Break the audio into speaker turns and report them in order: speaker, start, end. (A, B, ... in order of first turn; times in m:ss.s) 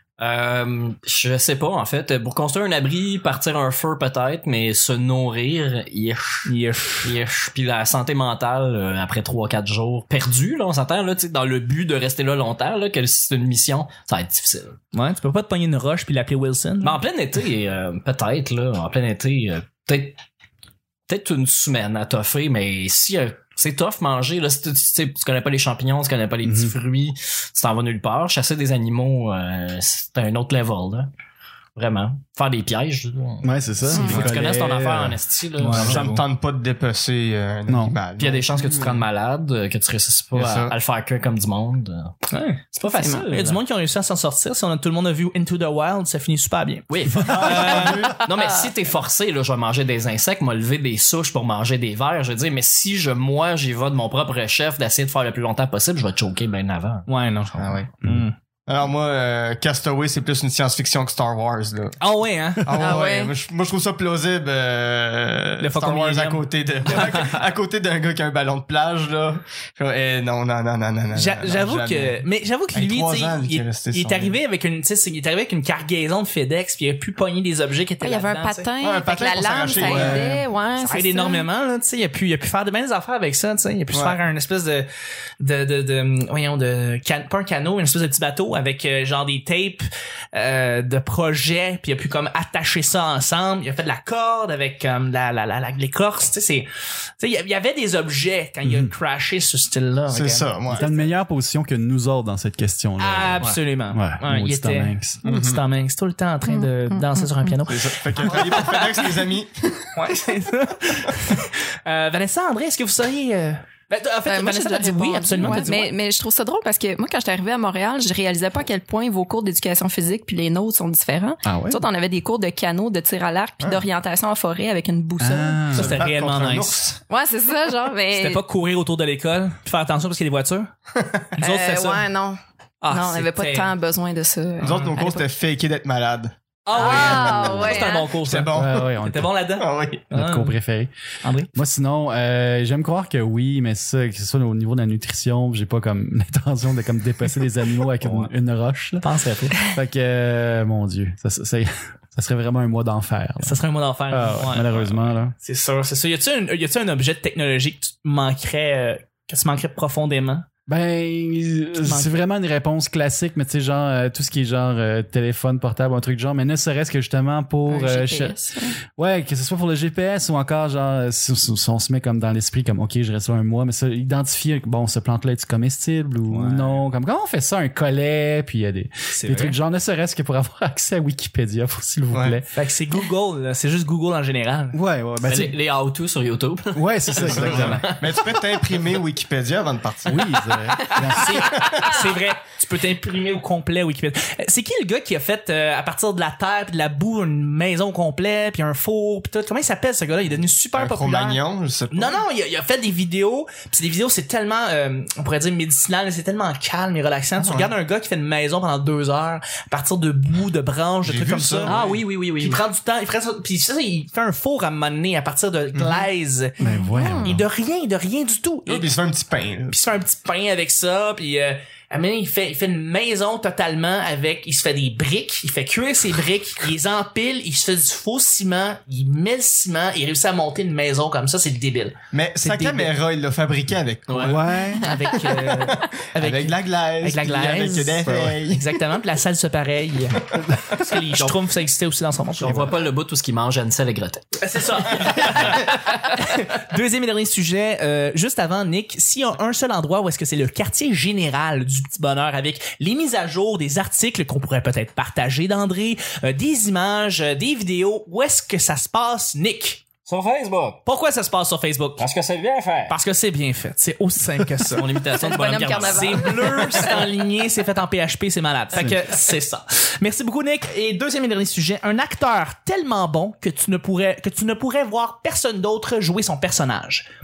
0:00.2-0:06.5 A
0:06.5-0:07.2 B
0:07.0-0:14.8 A
0:14.9-0:17.0 B
0:16.8-0:20.2 A
0:21.1-0:31.1 A
0:26.4-0:26.7 C
0:31.8-0:36.2 A
0:33.4-0:35.2 C
0:33.9-0:34.3 D
0:35.6-0:36.1 B
0:35.7-0:39.0 E
0:37.7-0:38.0 C
0:38.2-0:42.1 A
0:40.3-0:40.8 E
0:42.3-0:42.6 B
0:42.7-0:43.6 A
0:42.8-0:43.3 D
0:43.3-0:48.1 B
0:46.9-0:57.0 A
0:47.1-0:48.2 C
0:57.1-0:58.4 B
0:58.7-1:02.0 E
1:02.0-1:02.7 B
1:02.6-1:14.4 E
1:02.7-1:03.4 D
1:05.6-1:07.4 B
1:11.1-1:18.7 B
1:18.0-1:21.5 D
1:18.8-1:20.3 E
1:19.8-1:20.4 C
1:20.8-1:24.9 B
1:23.9-1:24.2 E
1:25.4-1:36.7 B
1:37.2-1:41.0 B
1:38.6-1:38.9 C
1:40.1-1:40.9 E
1:40.7-1:45.2 C
1:43.0-1:49.1 B
1:45.2-1:45.6 E
1:46.5-1:47.6 D
1:47.7-1:49.9 E
1:50.0-1:55.9 B
1:54.3-2:05.8 D
2:01.4-2:01.8 C
2:05.2-2:06.0 C
2:05.7-2:07.0 E
2:05.8-2:06.9 B
2:07.1-2:08.4 D
2:08.1-2:10.7 B
2:11.0-2:11.3 E
2:11.4-2:12.1 B
2:11.4-2:15.3 D
2:12.8-2:13.7 B
2:14.6-2:18.9 E
2:16.7-2:20.6 B
2:16.7-2:18.2 D
2:18.5-2:19.3 C
2:19.6-2:20.1 E
2:20.1-2:20.9 C
2:21.2-2:21.5 B
2:21.5-2:29.1 C
2:28.0-2:28.3 A
2:29.0-2:29.6 B
2:29.6-2:33.6 C
2:33.4-2:40.5 B
2:34.1-2:35.3 C
2:40.7-2:48.4 C
2:41.8-2:42.1 B
2:47.7-2:48.8 D
2:48.9-3:02.5 C
2:56.4-2:56.6 A
2:56.4-2:56.7 B
2:59.1-2:59.6 B
3:02.1-3:02.4 E
3:02.5-3:04.8 B
3:04.7-3:05.6 C
3:05.2-3:08.7 A
3:06.7-3:07.9 C
3:07.2-3:10.7 E
3:10.1-3:11.7 C
3:10.9-3:36.6 B
3:11.6-3:11.9 E
3:20.7-3:22.2 E
3:27.4-3:27.7 E
3:31.0-3:31.9 E
3:31.6-3:32.6 A
3:35.7-3:36.1 E
3:36.6-3:37.4 D
3:36.6-3:37.5 C
3:37.2-3:38.9 B
3:38.7-3:39.8 E
3:39.7-3:53.0 B
3:52.1-3:54.6 E
3:54.1-3:54.4 A
3:54.2-3:55.0 C
3:54.8-3:55.1 D
3:54.8-3:57.9 B
3:55.4-3:58.8 E
3:57.5-3:58.4 C
3:58.5-4:02.6 B
4:02.4-4:04.2 A
4:02.4-4:02.8 C
4:04.4-4:19.8 B
4:20.1-4:20.8 A
4:20.9-4:22.0 B
4:22.0-4:22.9 A
4:22.9-4:25.0 B
4:24.7-4:26.8 A
4:25.2-4:27.0 D
4:25.7-4:37.1 B